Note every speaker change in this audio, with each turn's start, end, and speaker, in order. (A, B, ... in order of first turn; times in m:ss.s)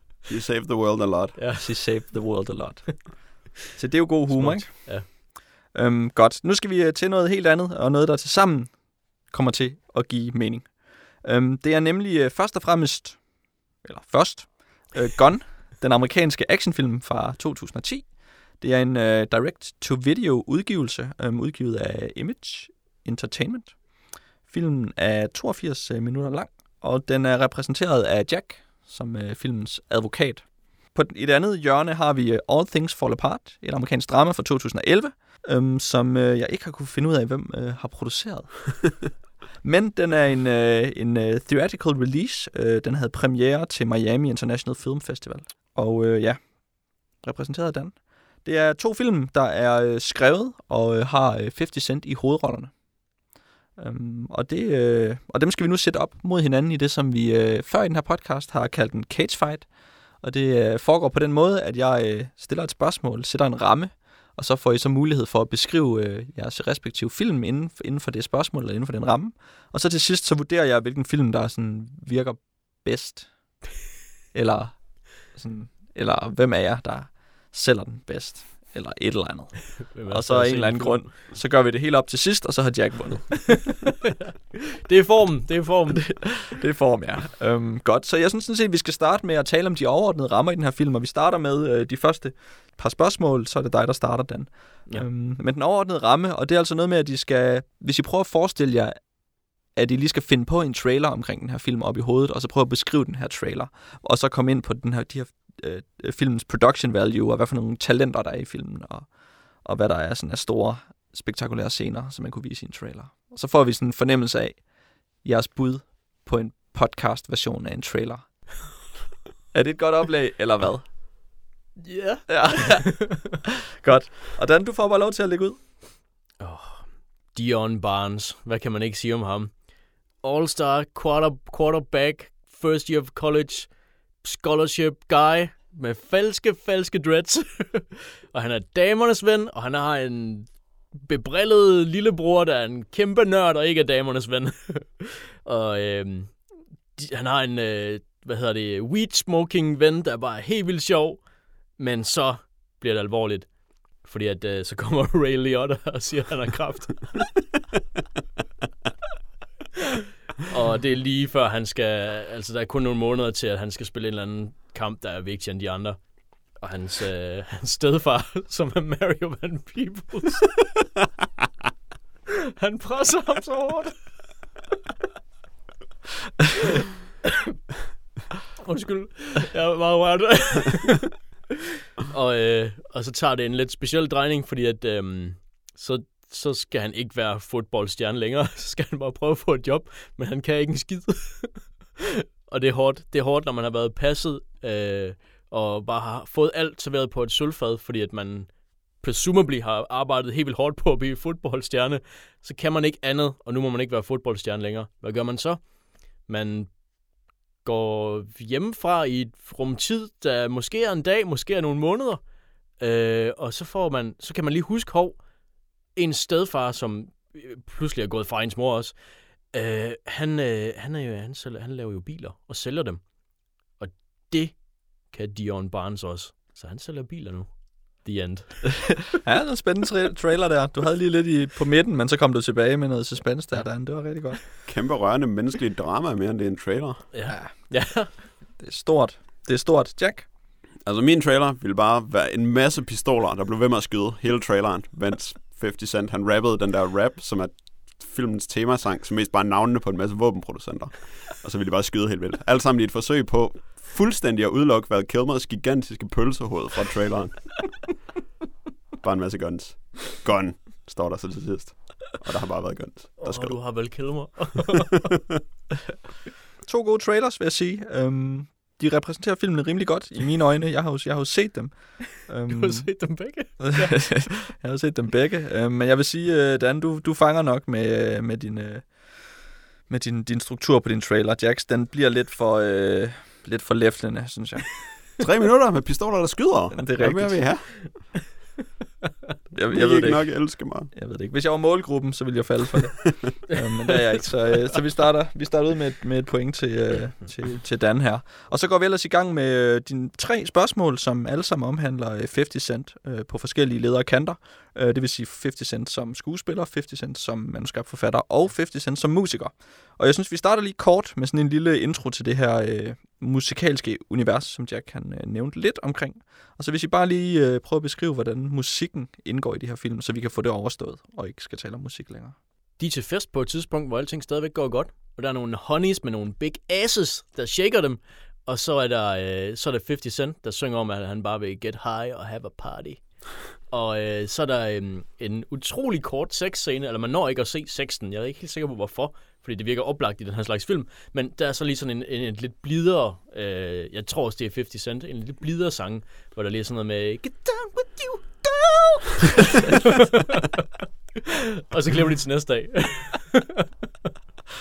0:00.3-0:01.4 A
0:01.3-0:02.3 B
0:01.6-0:39.1 C
0:04.3-0:05.1 B
0:39.6-0:52.8 C
0:53.8-1:13.5 C
1:14.3-1:23.8 C
1:19.8-1:21.2 B
1:24.7-1:26.5 B
1:26.0-1:39.1 C
1:39.7-1:58.8 C
1:59.5-2:01.0 C
2:01.8-2:03.3 B
2:02.3-2:05.7 C
2:06.4-2:37.4 B
2:40.5-2:50.7 B
2:52.6-2:54.2 B
2:58.6-3:01.1 B
3:02.1-3:26.8 B
3:27.6-3:35.2 B
3:35.9-3:43.1 B
3:43.7-3:49.1 B
3:49.0-3:54.6 C
3:54.6-3:57.1 A
3:57.1-3:58.2 B
3:57.3-4:00.3 C
4:00.8-4:18.0 A
4:19.0-4:24.2 A
4:23.2-4:25.1 B
4:26.6-4:44.9 C
4:32.5-4:34.4 B
4:45.2-4:48.2 A
4:46.7-4:47.8 C
4:49.5-5:22.4 C
4:49.7-4:50.9 A
5:22.8-5:50.7 B
5:51.7-5:53.6 B